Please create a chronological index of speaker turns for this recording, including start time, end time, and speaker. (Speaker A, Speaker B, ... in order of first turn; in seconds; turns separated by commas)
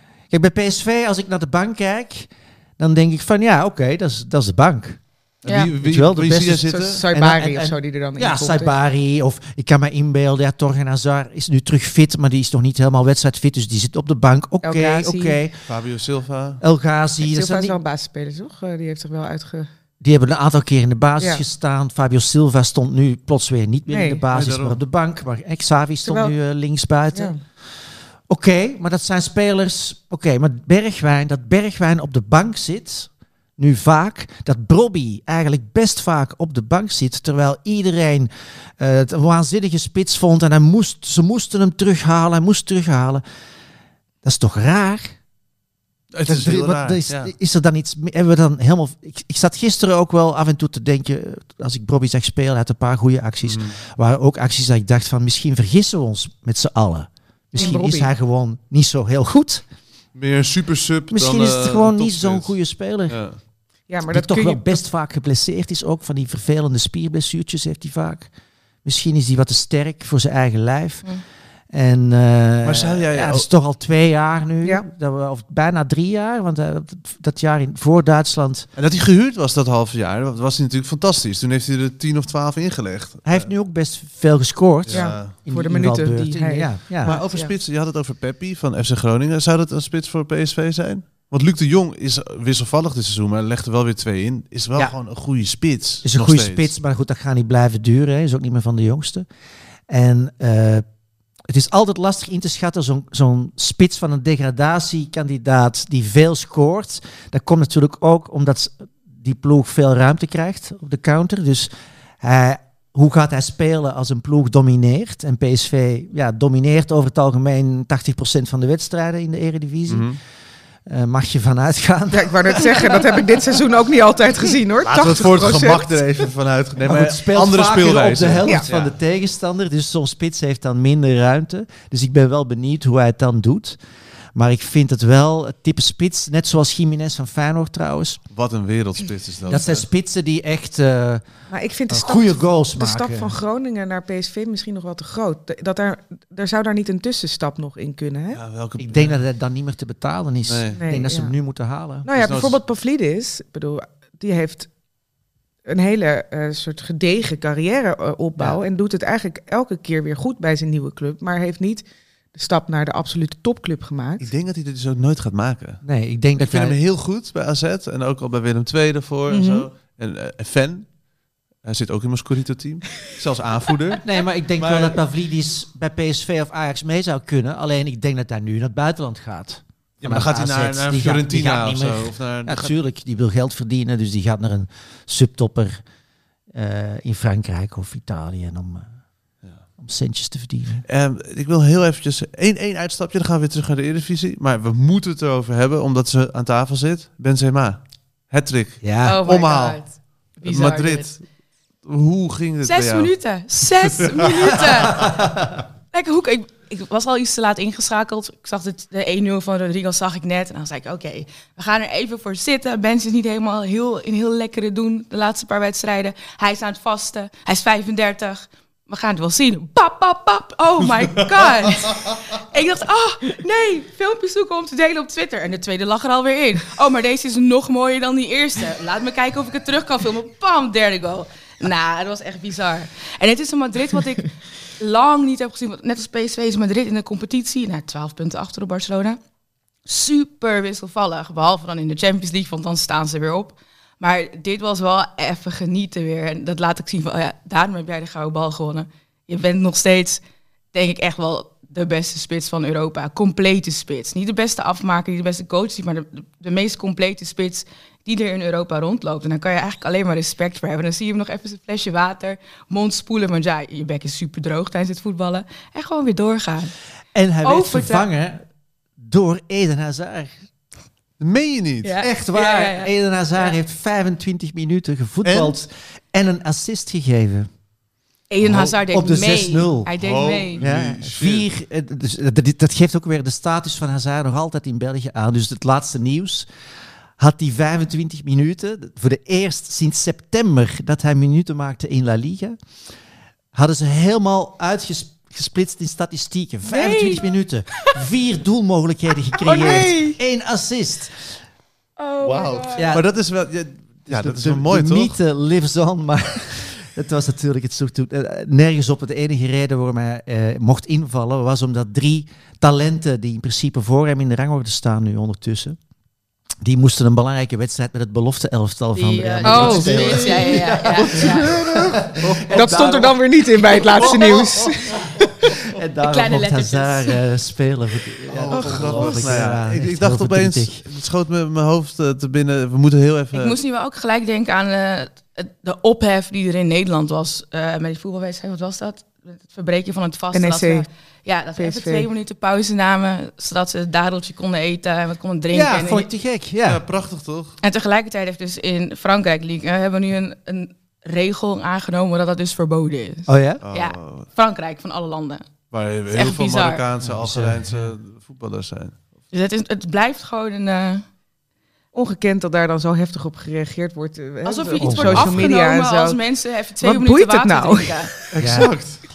Speaker A: 0.3-5.0, Speaker B: 5.4-5.7, Speaker C: 5.4-7.0, Speaker A: 5.8-15.6, Speaker D: 6.7-8.7, Speaker D: 14.6-15.4, Speaker C: 15.7-16.6, Speaker A: 16.6-17.8, Speaker D: 17.2-19.7, Speaker A: 20.0-27.3, Speaker D: 23.9-24.2, Speaker C: 24.3-24.8, Speaker D: 26.0-26.3, Speaker A: 28.3-43.2, Speaker A: 44.2-45.1, Speaker C: 46.1-47.3, Speaker A: 46.2-59.6, Speaker C: 53.4-53.7, Speaker D: 57.5-58.1, Speaker C: 60.1-62.5, Speaker A: 61.1-63.2, Speaker C: 63.1-63.4, Speaker D: 63.9-64.7, Speaker A: 64.1-68.3, Speaker A: 68.8-71.1, Speaker A: 71.7-78.7, Speaker C: 72.6-73.5, Speaker C: 78.8-83.5, Speaker A: 83.2-87.1, Speaker C: 84.8-85.3, Speaker D: 84.9-87.5, Speaker C: 87.0-96.7, Speaker A: 96.0-99.2, Speaker A: 99.9-100.8, Speaker A: 101.5-120.1, Speaker C: 119.9-120.2, Speaker A: 120.8-123.2, Speaker D: 122.1-126.1, Speaker C: 124.8-128.9, Speaker A: 126.8-133.8, Speaker A: 134.3-138.2, Speaker C: 138.3-139.8, Speaker A: 139.5-141.2, Speaker D: 141.5-148.4, Speaker A: 141.9-143.4, Speaker C: 148.3-149.2, Speaker A: 148.8-152.1, Speaker C: 150.4-150.8, Speaker D: 150.8-151.3, Speaker D: 152.0-154.7, Speaker C: 152.1-152.6, Speaker D: 155.7-164.2, Speaker C: 164.2-165.8, Speaker A: 165.8-166.8, Speaker C: 166.4-170.9, Speaker D: 169.3-169.7, Speaker C: 171.6-174.0, Speaker A: 174.0-185.8, Speaker C: 174.6-175.0, Speaker C: 180.0-182.7, Speaker A: 186.5-188.9, Speaker A: 189.8-190.8, Speaker C: 190.8-199.8, Speaker A: 198.8-199.2, Speaker B: 199.0-201.1, Speaker C: 200.4-201.2, Speaker C: 201.8-203.1, Speaker B: 202.6-205.2, Speaker C: 204.2-204.7, Speaker A: 204.9-205.4, Speaker B: 205.9-239.2, Speaker B: 239.8-250.2, Speaker B: 250.7-266.7, Speaker A: 267.1-268.4, Speaker B: 267.4-268.1, Speaker A: 269.0-270.3, Speaker C: 271.2-271.9, Speaker B: 271.8-273.5, Speaker A: 272.0-277.5, Speaker C: 275.2-275.6, Speaker B: 278.3-280.6, Speaker A: 278.4-280.0, Speaker C: 280.0-281.5, Speaker A: 280.6-286.5, Speaker A: 287.2-292.6, Speaker A: 293.5-301.2, Speaker B: 296.7-297.2, Speaker B: 299.4-300.2, Speaker D: 299.4-300.1, Speaker B: 302.0-302.9, Speaker C: 302.2-305.1, Speaker A: 302.8-303.1, Speaker A: 304.1-315.8, Speaker A: 316.6-324.3, Speaker B: 318.9-321.5, Speaker D: 319.4-320.4, Speaker C: 321.1-322.8, Speaker D: 322.5-325.5, Speaker C: 323.9-324.6, Speaker A: 325.5-330.8, Speaker B: 326.0-327.2, Speaker C: 328.3-333.6, Speaker D: 328.5-329.2, Speaker B: 333.3-346.1, Speaker D: 340.3-340.9, Speaker D: 341.6-342.1, Speaker A: 345.5-346.8, Speaker C: 346.6-347.6, Speaker B: 347.6-355.5, Speaker A: 353.3-353.6, Speaker C: 353.6-354.3, Speaker C: 355.7-358.9, Speaker B: 356.1-356.8, Speaker A: 357.0-357.9, Speaker B: 359.3-361.0, Speaker D: 361.9-366.2, Speaker B: 364.4-368.1, Speaker A: 364.8-365.5, Speaker D: 366.8-368.3, Speaker C: 368.3-369.0, Speaker A: 368.4-368.7